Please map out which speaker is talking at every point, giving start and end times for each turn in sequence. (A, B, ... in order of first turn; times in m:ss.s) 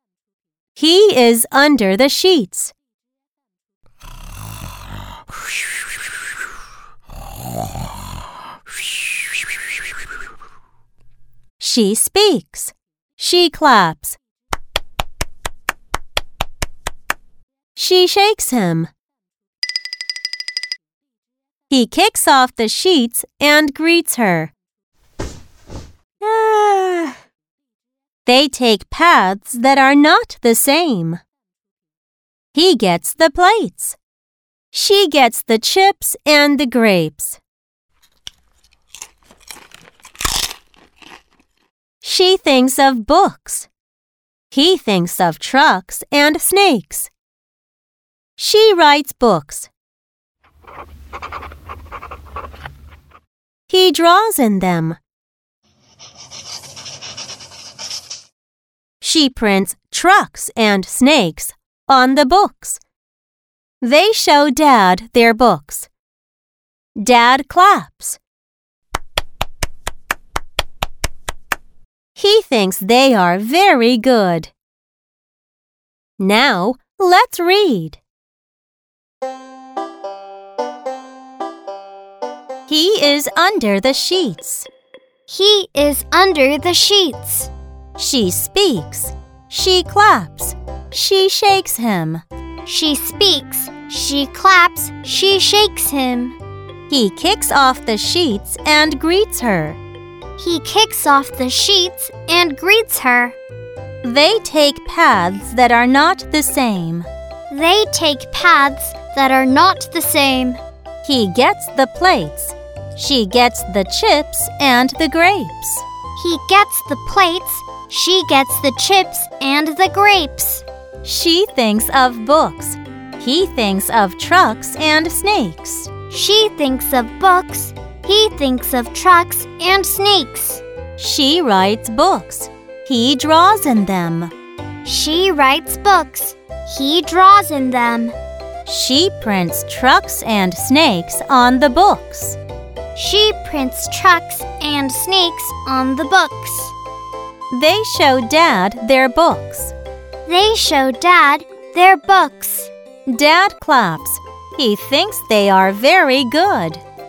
0:00.8-0:02.7 A
0:11.6-0:14.2 A
0:17.8-0:18.9 A
0:21.7-0:24.5 A
0:26.2-0:27.1 A
0:28.2-0:31.2 A
0:32.5-0:34.0 A
0:34.7-0:37.4 A
0:42.0-0:43.7 A
0:44.5-0:47.1 A
0:48.4-0:49.7 A
0:53.7-0:55.0 A
0:59.0-1:02.8 A
1:03.8-1:05.9 A
1:07.0-1:08.2 A
1:12.2-1:14.5 A
1:16.2-1:18.0 A
1:22.7-1:24.7 A
1:25.3-1:27.5 B
1:28.0-1:32.2 A
1:32.6-1:36.4 B
1:36.9-1:39.8 A
1:40.4-1:43.4 B
1:44.0-1:47.1 A
1:47.5-1:50.6 B
1:51.0-1:55.9 A
1:56.2-2:00.6 B
2:01.0-2:05.9 A
2:06.1-2:10.6 B
2:11.0-2:14.3 A
2:14.8-2:18.2 B
2:18.7-2:22.4 A
2:23.0-2:26.8 B
2:27.5-2:29.8 A
2:30.2-2:32.7 B
2:33.1-2:36.8 A